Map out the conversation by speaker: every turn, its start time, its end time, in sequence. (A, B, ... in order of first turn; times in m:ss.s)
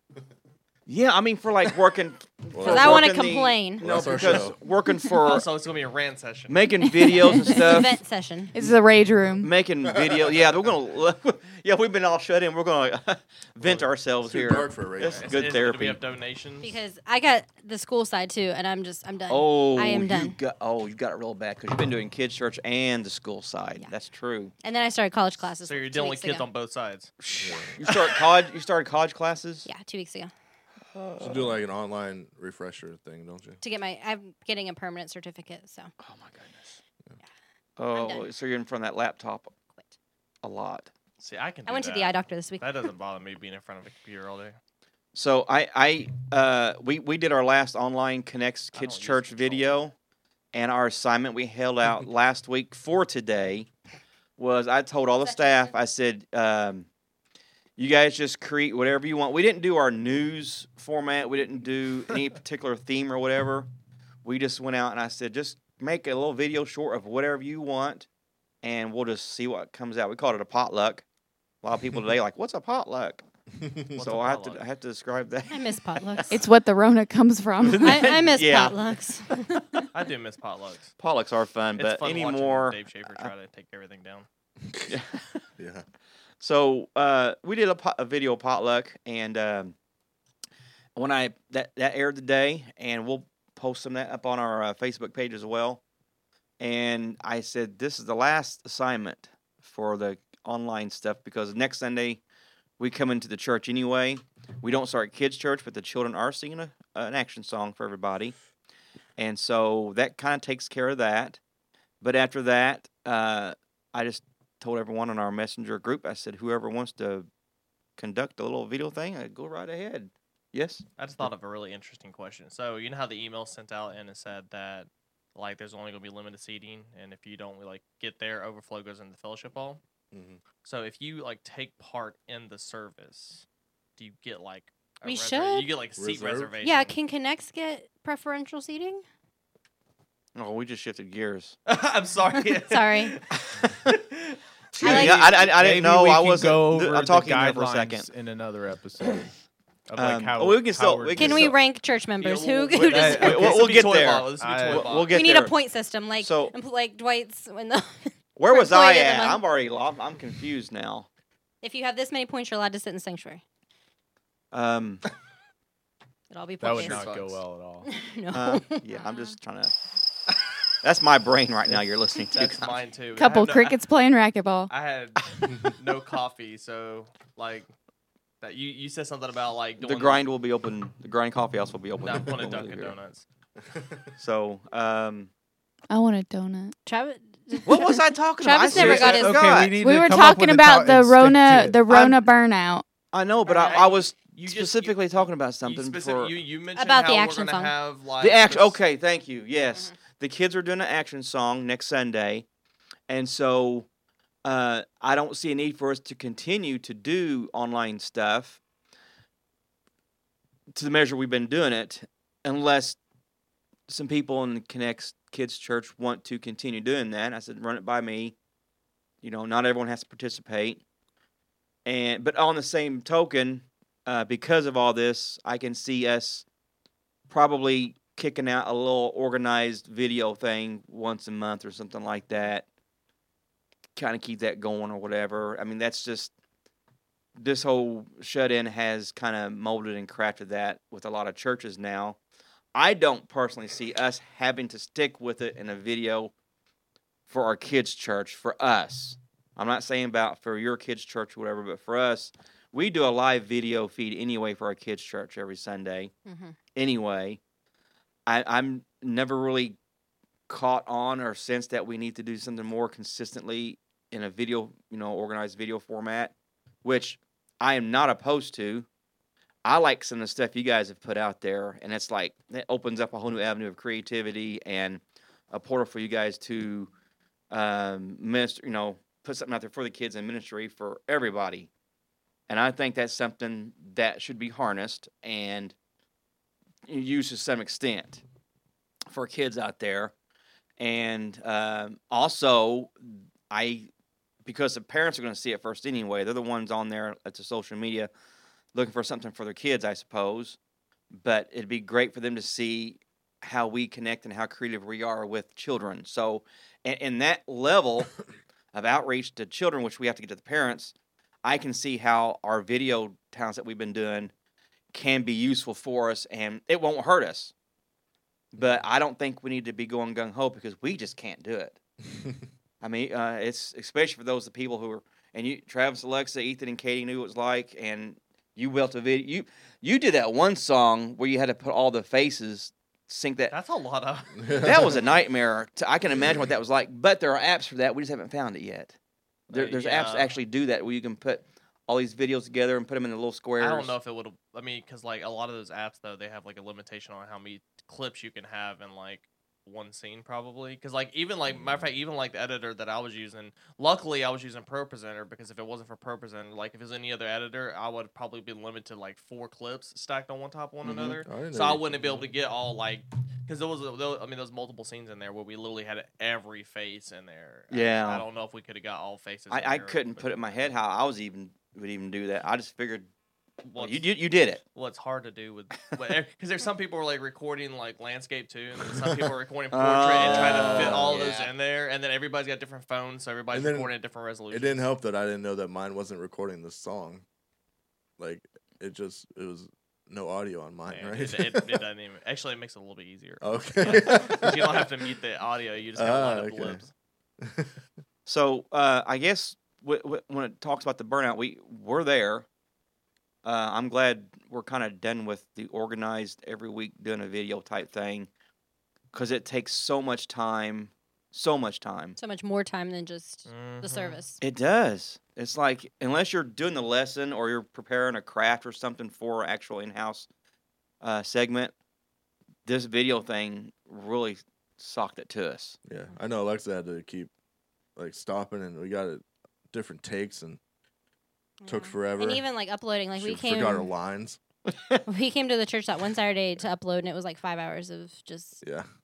0:00.9-0:05.5 A
0:02.5-0:03.1 B
0:02.6-0:03.9 C
0:03.8-0:04.6 B
0:05.2-0:06.8 D
0:06.5-0:08.0 A
0:07.5-0:08.6 C
0:08.5-0:09.5 E
0:09.4-0:16.0 A
0:09.8-0:10.5 B
0:14.2-0:15.3 B
0:15.1-0:16.8 D
0:16.6-0:20.4 C
0:19.3-0:24.5 A
0:24.6-0:26.5 C
0:25.6-0:27.1 D
0:27.2-0:29.7 A
0:27.4-0:27.8 B
0:29.7-0:30.3 C
0:30.9-0:31.6 A
0:31.2-0:33.6 B
0:33.6-0:35.9 C
0:36.0-0:36.8 A
0:37.8-0:39.5 A
0:37.9-0:38.3 C
0:40.4-0:40.9 A
0:41.2-0:44.6 D
0:41.7-0:42.7 C
0:45.2-0:49.9 A
0:48.7-0:49.8 D
0:50.5-0:53.7 A
0:54.4-0:56.9 A
0:55.2-0:55.8 C
0:57.8-1:03.7 A
1:04.2-1:08.1 A
1:08.6-1:11.0 A
1:11.6-1:13.2 A
1:13.6-1:14.0 B
1:14.0-1:14.6 D
1:14.0-1:16.3 A
1:15.5-1:16.4 C
1:16.3-1:18.2 E
1:17.6-1:18.9 A
1:17.8-1:19.8 C
1:19.6-1:19.9 A
1:19.9-1:20.9 D
1:21.0-1:23.3 A
1:21.8-1:24.3 D
1:24.9-1:25.4 A
1:25.6-1:25.8 B
1:26.4-1:29.8 A
1:31.0-1:35.8 A
1:36.6-1:42.2 A
1:42.8-1:48.4 A
1:49.2-1:51.4 A
1:52.0-1:57.3 A
1:58.0-2:00.8 A
2:01.0-2:09.8 D
2:10.1-2:10.4 B
2:10.6-2:13.4 D
2:14.0-2:17.0 D
2:15.0-2:15.7 C
2:16.0-2:16.5 B
2:16.6-2:19.0 C
2:20.4-2:21.6 A
2:21.7-2:23.3 D
2:22.5-2:23.2 C
2:23.5-2:24.0 A
2:23.9-2:25.3 D
2:24.8-2:28.1 A
2:24.8-2:25.3 C
2:24.8-2:29.3 F
2:29.9-2:31.6 F
2:30.0-2:31.5 A
2:31.2-2:33.5 C
2:32.2-2:35.1 D
2:32.8-2:35.5 A
2:32.9-2:33.5 F
2:34.3-2:34.9 F
2:35.1-2:39.4 C
2:36.2-2:36.5 A
2:38.4-2:41.1 A
2:41.6-2:43.4 C
2:44.5-2:45.0 A
2:46.3-2:47.2 C
2:46.6-2:47.9 F
2:46.8-2:47.4 D
2:47.8-2:49.3 C
2:48.3-2:49.7 A
2:50.8-2:52.8 A
2:52.3-2:53.8 D
2:53.2-2:54.7 E
2:54.7-2:57.7 D
2:58.4-3:00.2 D
2:59.8-3:02.9 A
3:02.0-3:03.2 D
3:03.7-3:04.1 B
3:04.2-3:05.3 A
3:05.9-3:06.8 E
3:06.9-3:09.6 C
3:07.6-3:09.8 A
3:08.7-3:11.8 F
3:09.8-3:12.8 E
3:11.9-3:12.2 A
3:13.1-3:16.3 A
3:13.5-3:13.8 C
3:13.5-3:18.8 D
3:16.8-3:17.7 C
3:18.2-3:22.5 A
3:23.1-3:23.9 A
3:24.4-3:28.6 A
3:30.7-3:33.0 A
3:33.9-3:38.4 A
3:39.2-3:40.8 A
3:41.8-3:46.4 A
3:47.3-3:52.7 A
3:54.0-3:56.3 A
3:57.4-4:02.2 A
4:02.8-4:06.3 A
4:07.3-4:16.1 A
4:16.3-4:16.6 C
4:16.8-4:17.4 A
4:18.3-4:19.8 A
4:20.5-4:28.9 A
4:29.6-4:36.9 A
4:37.5-4:41.7 A
4:42.5-4:45.7 A
4:46.9-4:48.2 A
4:49.1-4:50.1 A
4:50.8-4:53.9 A
4:54.4-4:58.1 A
4:58.7-5:00.6 A
5:01.1-5:08.1 A
5:08.7-5:14.3 A
5:14.9-5:17.5 A
5:18.5-5:21.8 A
5:22.8-5:33.6 A
5:33.5-5:35.0 D
5:34.4-5:34.9 B
5:34.6-5:39.0 A
5:39.5-5:40.4 D
5:39.5-5:43.9 A
5:43.6-6:10.5 D
6:00.8-6:01.2 A
6:01.2-6:02.2 B
6:07.7-6:08.3 A
6:09.5-6:13.1 A
6:13.6-6:14.1 D
6:13.8-6:14.6 A
6:14.6-6:24.9 D
6:19.7-6:21.4 A
6:20.2-6:21.2 B
6:23.5-6:23.9 B
6:24.5-6:27.2 B
6:28.2-6:31.8 B
6:30.9-6:36.9 D
6:33.4-6:34.9 B
6:36.0-6:36.8 B
6:37.4-6:37.7 B
6:38.3-6:42.5 A
6:43.4-6:48.3 A
6:49.1-6:52.2 A
6:52.2-6:54.4 C
6:53.5-6:54.2 D
6:54.4-7:00.3 A
7:01.0-7:01.7 A
7:02.6-7:05.8 A
7:05.8-7:07.3 B
7:08.0-7:10.6 B
7:11.6-7:13.9 C
7:11.6-7:12.4 B
7:13.1-7:14.4 B
7:14.7-7:15.0 A
7:15.1-7:18.6 C
7:18.6-7:18.9 B